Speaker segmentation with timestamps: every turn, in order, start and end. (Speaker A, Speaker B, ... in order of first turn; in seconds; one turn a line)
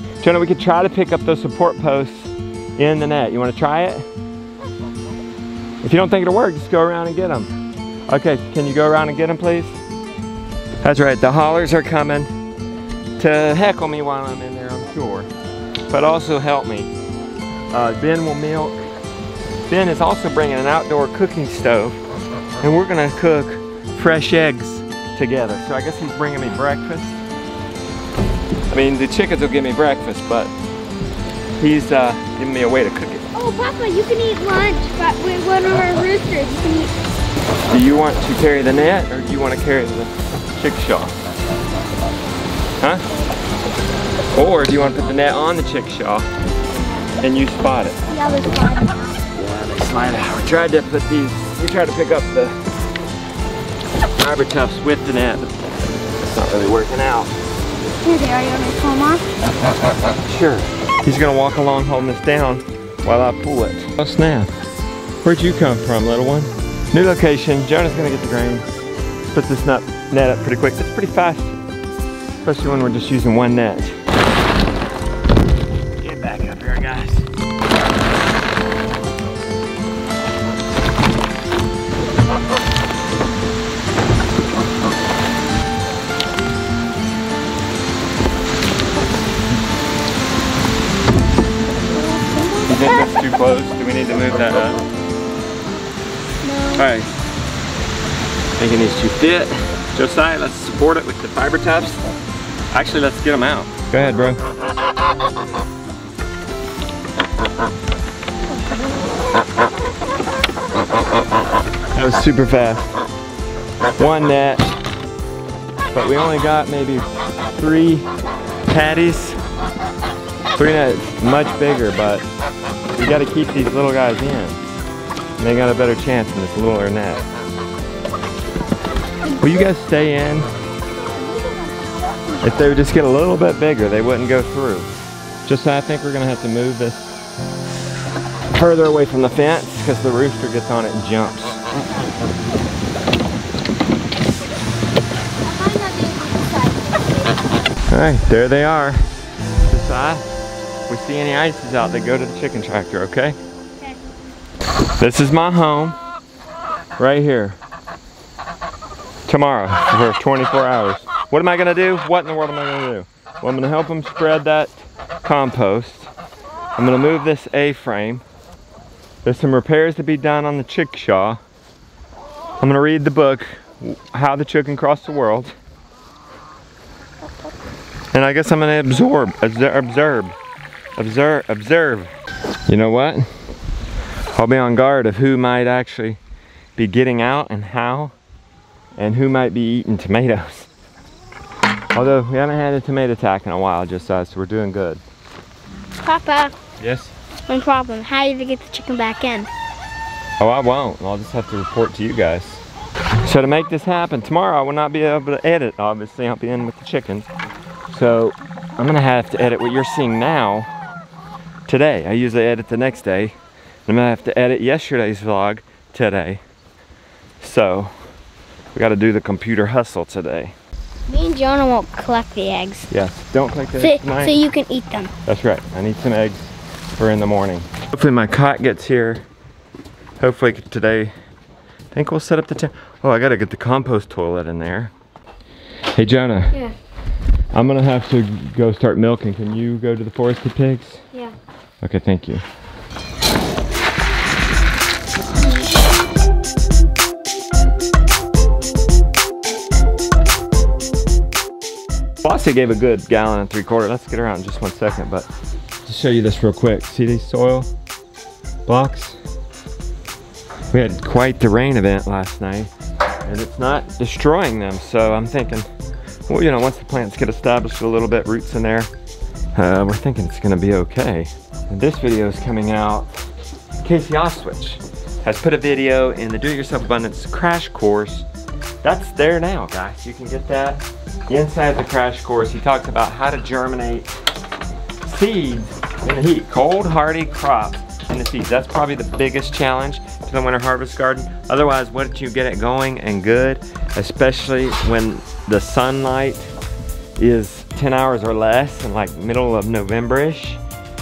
Speaker A: 0.2-4.1
Speaker A: 5.8-7.5
Speaker A: 8.1-9.8
Speaker A: 10.8-12.3
Speaker A: 13.2-15.3
Speaker A: 15.9-16.9
Speaker A: 17.7-18.8
Speaker A: 19.7-22.0
Speaker A: 22.6-27.2
Speaker A: 28.7-30.5
Speaker A: 31.6-33.3
Speaker B: 33.4-36.9
Speaker A: 37.7-41.1
Speaker A: 44.3-46.3
Speaker B: 46.7-47.1
Speaker A: 47.2-48.0
Speaker B: 48.1-49.2
Speaker A: 49.4-52.6
Speaker A: 54.2-55.5
Speaker A: 56.2-57.4
Speaker B: 58.0-59.3
Speaker A: 60.2-64.5
Speaker A: 65.2-68.7
Speaker A: 69.3-71.6
Speaker A: 72.4-74.0
Speaker A: 76.0-77.3
Speaker B: 92.0-92.7
Speaker A: 92.7-94.8
Speaker B: 96.4-96.9
Speaker A: 96.8-97.1
Speaker A: 98.6-102.0
Speaker A: 102.7-104.4
Speaker A: 111.9-112.9
Speaker A: 114.0-114.7
Speaker A: 115.9-118.1
Speaker A: 118.7-119.4
Speaker A: 120.6-122.3
Speaker A: 123.0-124.6
Speaker A: 125.4-127.3
Speaker A: 129.4-130.5
Speaker B: 131.1-132.4
Speaker A: 132.4-134.9
Speaker A: 135.5-137.1
Speaker A: 138.5-141.6
Speaker B: 145.4-147.4
Speaker A: 147.9-149.1
Speaker A: 149.7-150.2
Speaker A: 150.9-153.4
Speaker A: 155.0-156.0
Speaker A: 157.0-157.6
Speaker A: 159.3-166.1
Speaker A: 166.8-168.2
Speaker A: 169.2-171.4
Speaker A: 172.6-175.5
Speaker A: 178.1-180.4
Speaker A: 181.0-182.1
Speaker A: 182.7-183.3
Speaker A: 184.3-186.2
Speaker A: 186.8-188.1
Speaker A: 189.0-190.7
Speaker A: 191.9-195.0
Speaker B: 196.0-196.5
Speaker A: 196.8-197.1
Speaker B: 197.5-199.5
Speaker A: 200.4-202.7
Speaker A: 203.2-207.3
Speaker A: 207.9-210.7
Speaker A: 211.7-213.4
Speaker A: 213.9-216.4
Speaker A: 217.4-217.9
Speaker A: 218.7-220.6
Speaker B: 221.1-222.9
Speaker A: 222.9-224.3
Speaker B: 223.8-225.1
Speaker A: 225.3-229.2
Speaker A: 230.2-231.1
Speaker A: 231.9-234.9
Speaker A: 235.9-236.6
Speaker A: 237.5-241.0
Speaker A: 241.8-242.4
Speaker A: 252.2-255.3
Speaker A: 255.8-257.7
Speaker A: 258.7-259.2
Speaker A: 260.7-262.7
Speaker A: 263.2-265.7
Speaker A: 266.3-268.9
Speaker A: 269.6-273.2
Speaker A: 273.8-278.3
Speaker A: 278.8-284.1
Speaker A: 285.1-296.5
Speaker A: 297.2-300.6